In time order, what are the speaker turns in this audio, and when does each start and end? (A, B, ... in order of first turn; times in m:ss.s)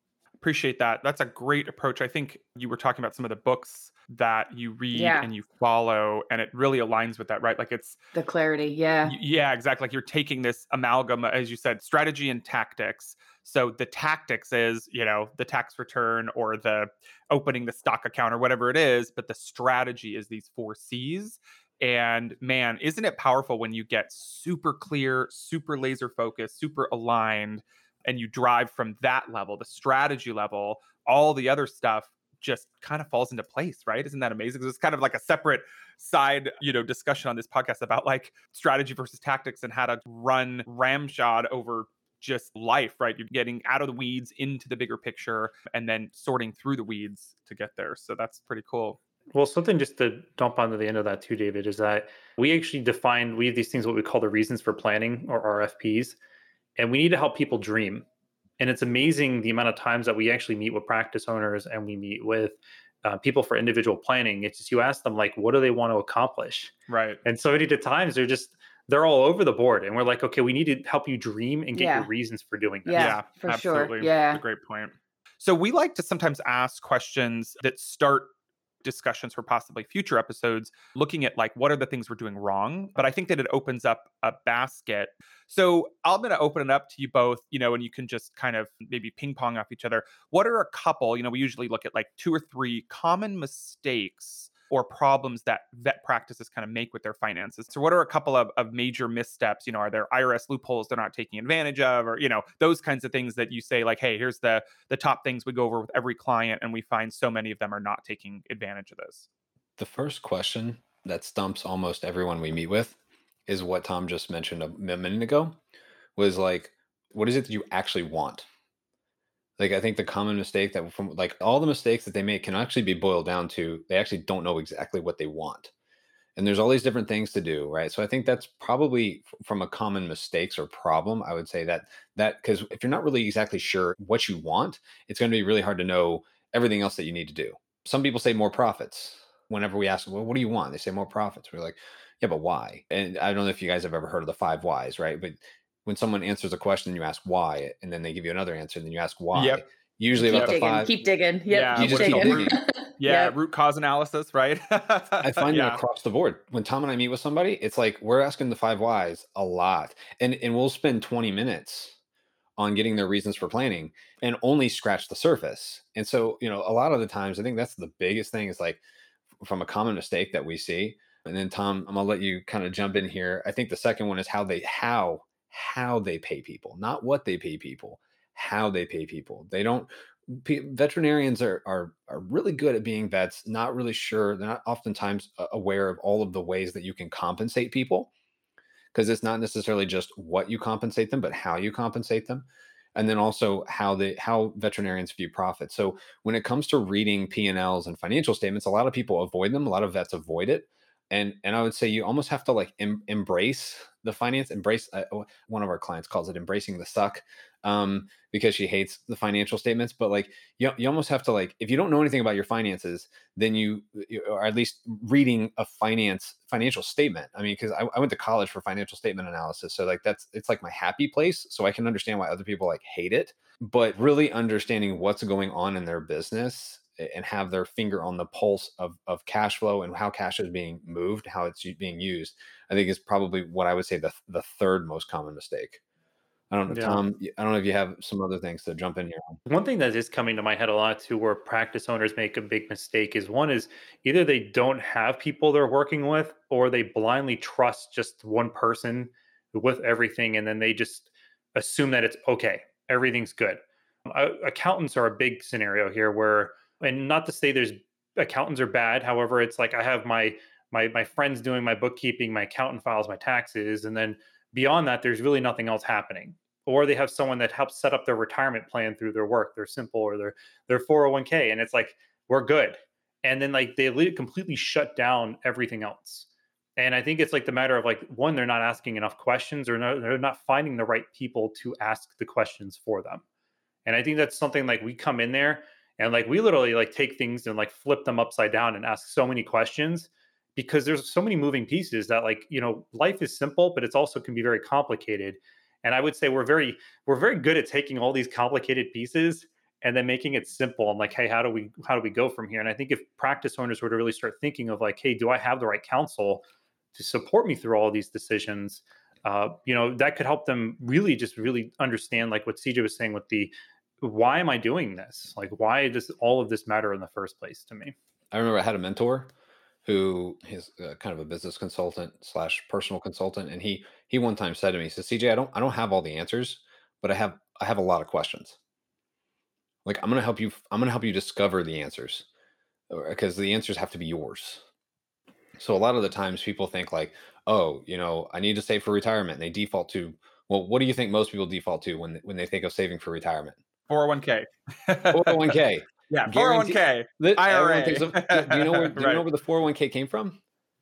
0:00.4-0:08.0 A
0:04.9-0:05.3 B
0:08.1-0:09.2 B
0:09.1-0:49.0 A
0:49.3-0:56.2 C
0:56.8-0:58.1 C
0:58.6-1:06.7 C
1:06.9-1:07.2 A
1:07.2-1:13.2 C
1:11.7-1:12.1 B
1:12.8-1:14.4 B
1:12.9-1:18.3 A
1:18.8-1:49.3 A
1:49.8-1:53.0 D
1:53.5-1:55.6 D
1:56.2-1:58.5 D
1:59.6-2:05.7 D
2:06.4-2:30.9 D
2:29.3-2:29.6 A
2:30.2-2:33.3 B
2:31.5-2:35.8 A
2:31.8-2:32.6 D
2:35.2-2:42.0 D
2:42.6-2:48.8 D
2:49.4-3:08.1 D
3:08.9-3:55.8 D
3:56.5-3:59.4 D
3:56.7-3:57.0 C
3:59.5-4:43.2 C
4:43.8-5:18.0 C
5:18.3-5:19.3 D
5:19.8-5:28.6 D
5:29.8-5:32.2 D
5:32.9-5:34.6 D
5:35.6-5:43.6 D
5:43.9-5:49.2 A
5:45.1-5:50.4 D